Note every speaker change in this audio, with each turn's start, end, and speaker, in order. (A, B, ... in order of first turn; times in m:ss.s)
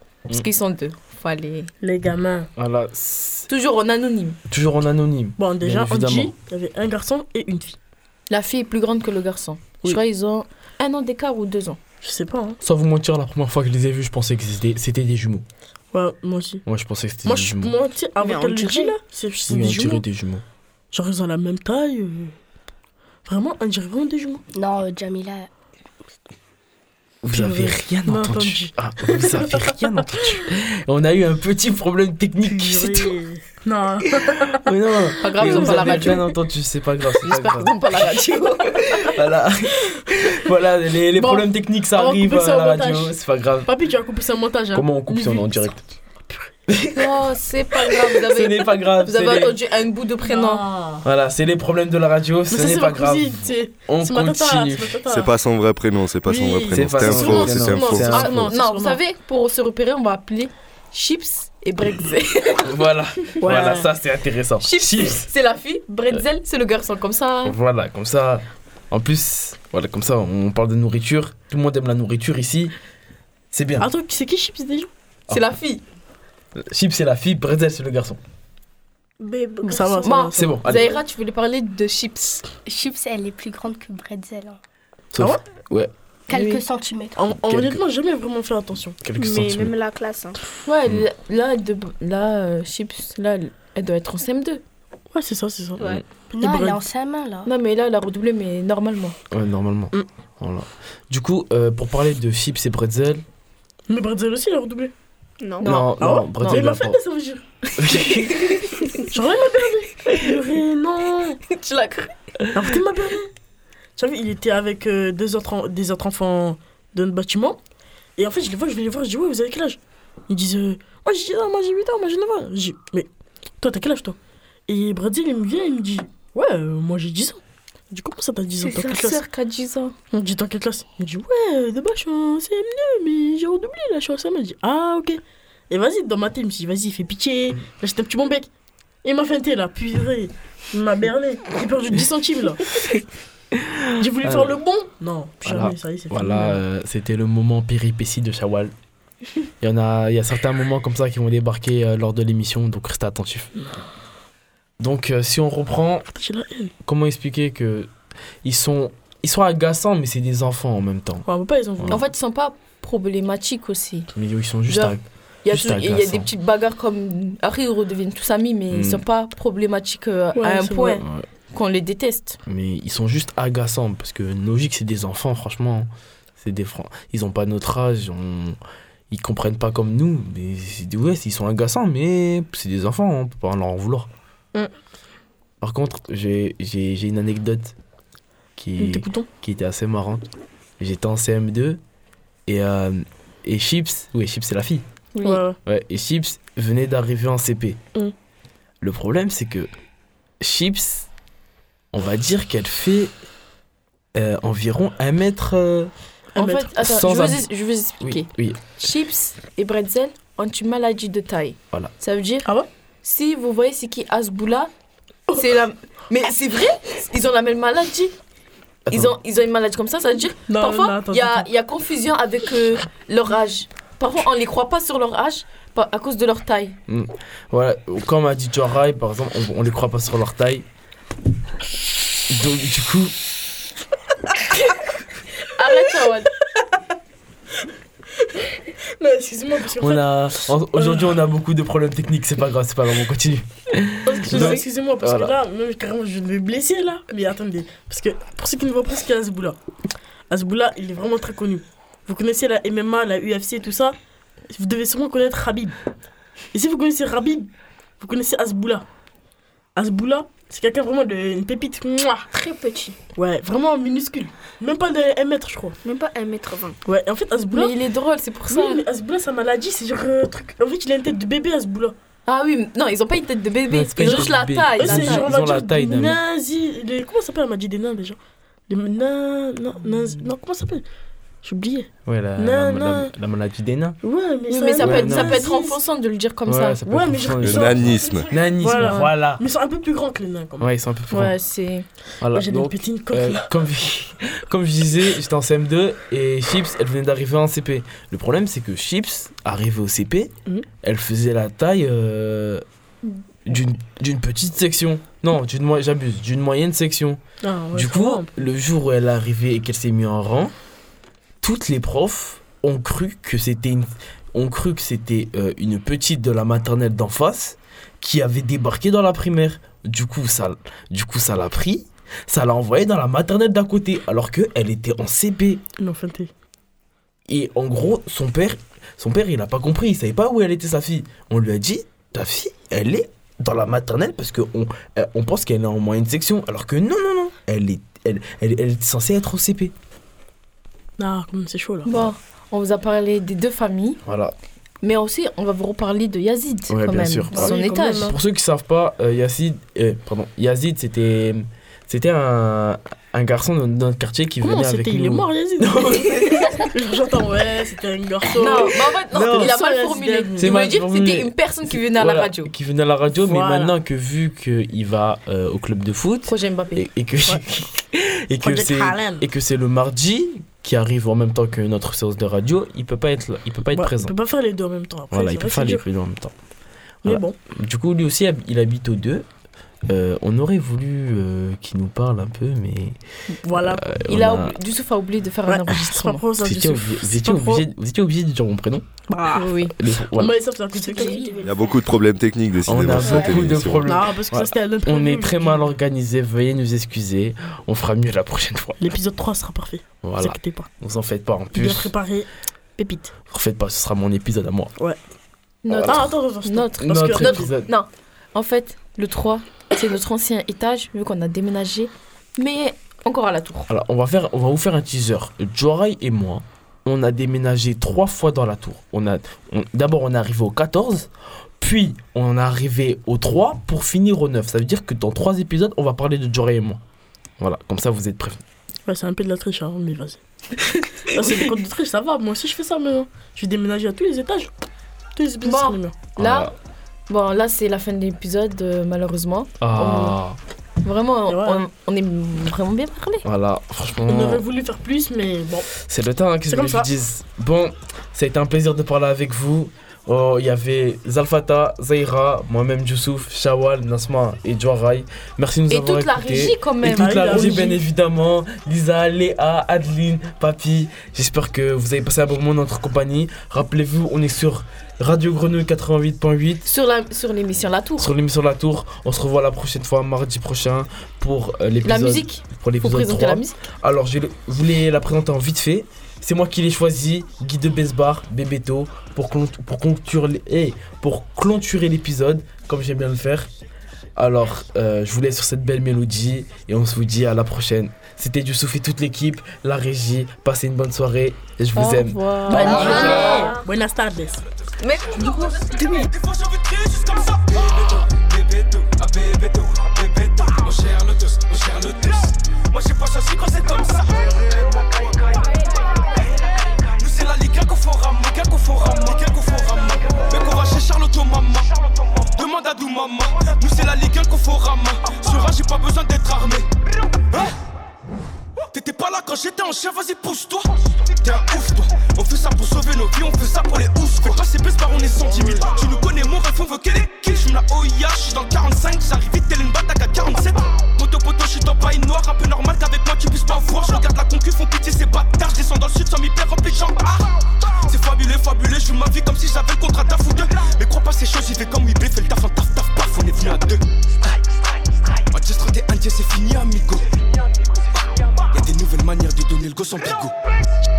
0:00.3-0:01.7 A
0:01.8-0:02.5 B
0:02.6-0:03.5 C
0:03.5-0:04.4 A
0:04.5-0:06.3 C
0:05.4-0:07.8 B
0:08.3-0:11.8 A
0:12.0-0:12.6 B
0:12.6-0:15.4 C
0:15.9-0:16.6 B
0:16.7-0:17.8 C
0:17.2-0:20.0 B
0:18.2-0:19.0 D
0:19.5-0:20.4 C
0:20.9-0:22.4 B
0:23.3-0:24.4 B
0:24.5-0:25.5 E
0:27.2-0:33.1 C
0:27.3-0:29.7 B
0:32.4-0:34.7 B
0:34.2-0:38.0 C
0:35.2-0:36.2 A
0:35.3-0:36.2 B
0:37.2-0:39.1 A
0:39.0-0:43.7 C
0:41.2-0:46.5 B
0:44.7-0:45.8 C
0:46.7-0:47.2 C
0:46.9-0:50.7 A
0:47.8-0:49.6 C
0:50.3-0:51.1 B
0:51.0-0:55.0 C
0:52.5-0:55.4 B
0:55.1-0:58.3 F
0:56.2-0:59.0 B
0:56.7-0:58.5 C
0:58.1-1:02.7 A
1:02.6-1:05.3 C
1:03.4-1:03.9 B
1:04.6-1:07.6 A
1:07.4-1:12.8 C
1:13.5-1:13.9 C
1:13.8-1:14.9 B
1:15.3-1:15.8 A
1:16.6-1:18.2 C
1:19.6-1:22.5 A
1:19.7-1:20.8 B
1:20.4-1:20.9 C
1:22.7-1:24.6 E
1:25.1-1:25.9 C
1:26.3-1:27.2 E
1:27.2-1:29.0 B
1:27.4-1:27.8 C
1:29.0-1:29.7 C
1:29.2-1:30.4 D
1:30.7-1:34.6 A
1:35.1-1:35.8 B
1:36.3-1:37.5 E
1:36.4-1:36.8 B
1:37.4-1:39.2 A
1:39.3-1:43.2 C
1:43.9-1:44.9 B
1:45.4-1:45.7 D
1:45.6-1:46.6 A
1:45.6-1:47.0 C
1:46.0-1:47.5 B
1:47.8-1:48.7 C
1:47.9-1:49.0 A
1:49.1-1:51.4 B
1:51.5-1:52.1 A
1:52.5-1:53.3 B
1:54.0-1:57.6 B
1:58.2-2:03.1 B
2:03.6-2:07.4 B
2:07.9-2:09.2 B
2:08.6-2:10.0 A
2:10.1-2:18.5 B
2:19.0-2:22.8 B
2:23.5-2:24.6 C
2:24.0-2:26.6 B
2:25.4-2:28.7 C
2:29.6-2:33.5 C
2:34.8-2:36.1 C
2:36.2-2:36.7 B
2:36.8-2:37.9 C
2:38.4-2:41.3 C
2:41.3-2:42.1 B
2:41.9-2:44.1 A
2:44.1-2:46.3 C
2:44.7-2:52.4 A
2:48.7-2:49.0 C
2:50.4-2:51.0 B
2:51.0-2:51.3 C
2:52.5-2:58.6 C
2:59.1-3:04.1 C
3:05.6-3:07.8 C
3:08.6-3:10.2 C
3:08.8-3:09.3 B
3:10.8-3:11.8 C
3:12.5-3:14.9 C
3:15.2-3:15.4 A
3:15.2-3:15.6 B
3:15.6-3:17.8 C
3:18.8-3:19.7 C
3:20.4-3:21.1 C
3:21.9-3:23.1 C
3:24.2-3:25.9 C
3:26.4-3:26.7 B
3:26.4-3:32.5 A
3:26.8-3:27.5 C
3:28.0-3:28.6 C
3:33.0-3:34.7 A
3:35.3-3:38.1 A
3:38.9-3:39.2 C
3:38.9-3:46.8 A
3:40.5-3:41.5 B
3:46.9-3:50.7 C
3:52.3-3:53.1 C
3:55.6-3:56.3 A
3:59.0-4:00.0 B
3:59.8-4:05.4 C
4:00.8-4:01.1 B
4:04.0-4:09.6 B
4:04.3-4:04.6 A
4:10.3-4:14.0 B
4:14.5-4:15.8 B
4:16.5-4:17.5 B
4:18.0-4:18.9 B
4:19.8-4:22.3 B
4:22.3-4:23.0 D
4:23.2-4:25.8 B
4:25.8-4:26.8 D
4:26.8-4:27.8 B
4:27.5-4:28.8 A
4:28.5-4:32.0 B
4:32.3-4:35.3 A
4:33.7-4:36.2 C
4:34.0-4:40.8 B
4:41.4-4:43.1 B
4:42.1-4:44.0 C
4:44.0-4:45.8 B
4:44.5-4:46.8 A
4:44.8-4:45.4 C
4:46.5-4:49.4 C
4:46.8-4:51.3 B
4:47.4-4:48.3 F
4:48.8-4:49.1 A
4:50.6-4:51.4 C
4:51.1-4:51.9 A
4:52.2-5:02.6 C
4:52.3-4:53.5 B
5:03.5-5:07.2 C
5:07.4-5:08.4 B
5:07.7-5:10.5 C
5:11.4-5:25.6 C
5:25.8-5:26.3 B
5:27.3-5:39.7 C
5:41.0-5:42.1 B
5:41.9-5:44.0 A
5:44.0-5:44.3 C
5:44.8-5:48.1 A
5:46.7-5:56.7 C
5:47.3-5:48.2 B
5:54.4-6:00.7 B
5:58.4-6:02.5 A
5:58.4-5:59.6 C
6:00.4-6:14.2 C
6:03.2-6:03.8 B
6:06.3-6:06.9 A
6:08.4-6:09.3 B
6:13.7-6:15.8 B
6:15.1-6:16.3 C
6:17.0-6:17.4 B
6:17.0-6:19.3 C
6:19.9-6:23.0 C
6:23.4-6:23.9 B
6:23.6-6:24.6 C
6:23.9-6:26.2 A
6:25.5-6:27.6 B
6:26.4-6:28.9 C
6:29.1-6:31.4 B
6:29.3-6:29.8 A
6:29.7-6:30.4 C
6:30.8-6:31.8 E
6:30.8-6:31.4 A
6:31.4-6:33.9 F
6:32.6-6:38.9 C
6:32.9-6:33.3 B
6:33.8-6:35.7 B
6:38.8-6:40.7 B
6:40.0-6:41.9 C
6:41.5-6:43.1 B
6:43.3-6:44.7 C
6:45.6-6:53.7 A
6:45.7-6:46.2 C
6:45.9-6:47.5 B
6:46.8-6:47.7 C
6:53.7-7:06.8 C
7:07.4-7:08.4 C
7:08.9-7:10.2 B
7:11.1-7:14.5 B
7:15.2-7:16.0 B
7:15.4-7:16.5 A
7:16.2-7:16.5 C
7:17.1-7:20.2 A
7:19.6-7:20.4 C
7:20.8-7:23.3 A
7:21.3-7:21.7 B
7:23.2-7:24.4 C
7:24.0-7:25.7 B
7:25.8-7:46.7 C
7:26.5-7:26.9 B
7:35.7-7:37.8 A
7:36.9-7:37.8 B
7:46.7-7:48.1 A
7:48.0-8:03.5 C
7:51.8-7:53.6 A
8:04.2-8:13.3 C
8:11.8-8:13.6 A
8:12.5-8:14.4 B
8:14.8-8:16.1 A
8:15.0-8:37.6 G
8:38.7-9:10.4 G